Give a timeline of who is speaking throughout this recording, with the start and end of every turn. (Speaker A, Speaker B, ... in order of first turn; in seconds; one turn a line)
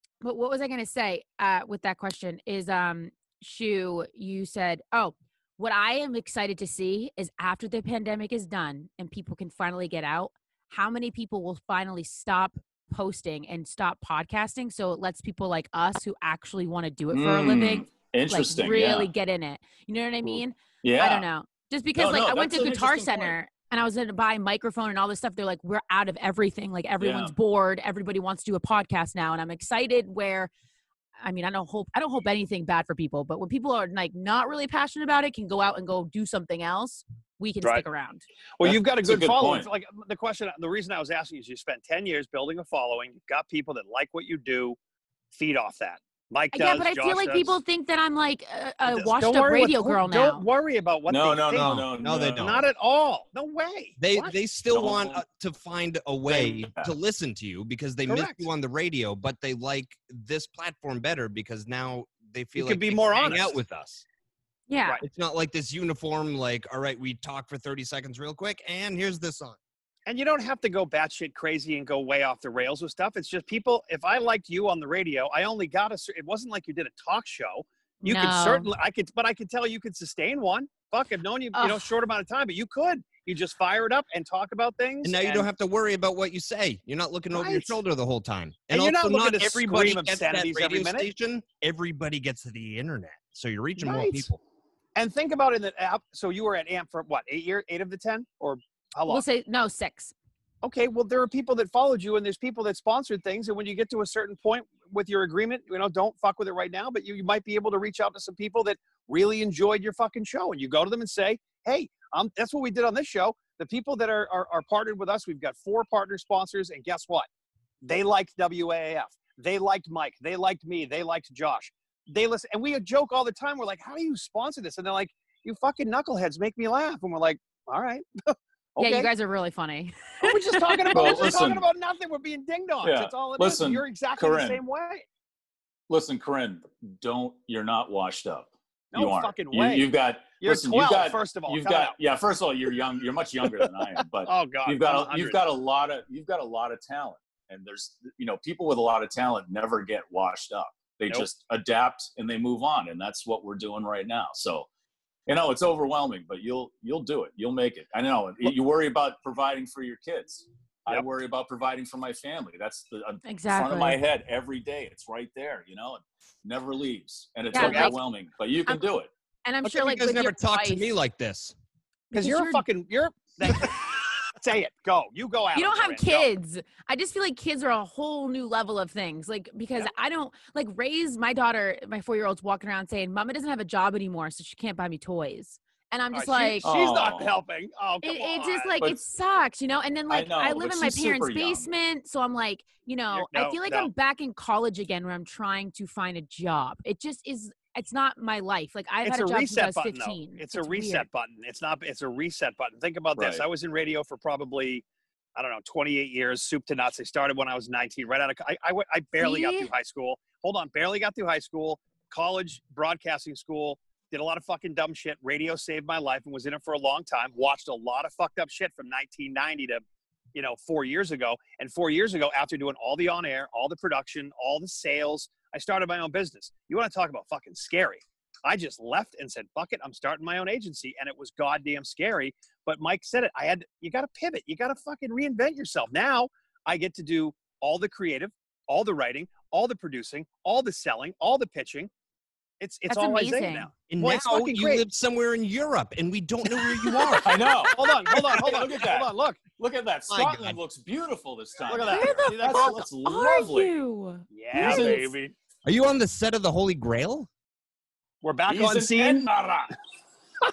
Speaker A: 0.2-30.5
Speaker B: 17.1-19.1
Speaker B: 20.8-21.2
Speaker B: 21.9-23.4
Speaker B: 27.0-27.3
Speaker A: 31.2-38.2
Speaker C: 38.6-44.8
Speaker B: 38.6-39.7
Speaker C: 45.3-47.6
Speaker A: 46.5-50.4
Speaker C: 48.9-54.3
Speaker B: 51.1-52.5
Speaker D: 51.5-52.6
Speaker D: 54.0-64.0
Speaker B: 54.7-55.2
Speaker B: 56.3-56.9
Speaker C: 58.0-58.5
Speaker C: 62.5-63.6
Speaker A: 64.7-65.0
Speaker D: 65.0-69.6
Speaker C: 70.0-85.5
Speaker A: 78.0-78.7
Speaker A: 81.5-81.9
Speaker D: 85.0-94.4
Speaker C: 87.3-87.8
Speaker C: 88.7-91.1
Speaker C: 93.8-94.3
Speaker C: 95.0-99.2
Speaker A: 99.1-100.1
Speaker C: 100.6-117.3
Speaker C: 117.8-129.1
Speaker A: 128.8-131.4
Speaker C: 130.2-135.0
Speaker B: 130.9-131.6
Speaker B: 132.8-134.6
Speaker B: 135.9-154.7
Speaker C: 138.9-139.9
Speaker C: 140.4-141.9
Speaker C: 144.2-145.4
Speaker B: 155.3-169.1
Speaker A: 163.2-164.0
Speaker C: 167.5-167.9
Speaker A: 167.5-168.0
Speaker A: 169.4-170.8
Speaker D: 169.6-171.5
Speaker A: 172.1-172.6
Speaker C: 172.1-176.3
Speaker A: 175.5-186.6
Speaker C: 186.1-189.0
Speaker B: 186.6-187.3
Speaker A: 188.0-201.1
Speaker B: 190.1-191.7
Speaker C: 193.1-193.9
Speaker C: 199.0-204.8
Speaker B: 203.2-203.4
Speaker C: 205.3-219.8
Speaker A: 209.2-209.7
Speaker C: 220.3-241.9
Speaker C: 242.6-244.8
Speaker A: 242.9-243.7
Speaker D: 243.9-247.4
Speaker A: 246.7-248.4
Speaker B: 247.2-253.7
Speaker C: 247.7-249.4
Speaker D: 250.1-250.6
Speaker C: 251.7-252.8
Speaker A: 251.7-255.0
Speaker C: 254.3-255.3
Speaker B: 254.6-255.1
Speaker D: 255.6-257.3
Speaker C: 258.2-259.2
Speaker B: 258.5-259.7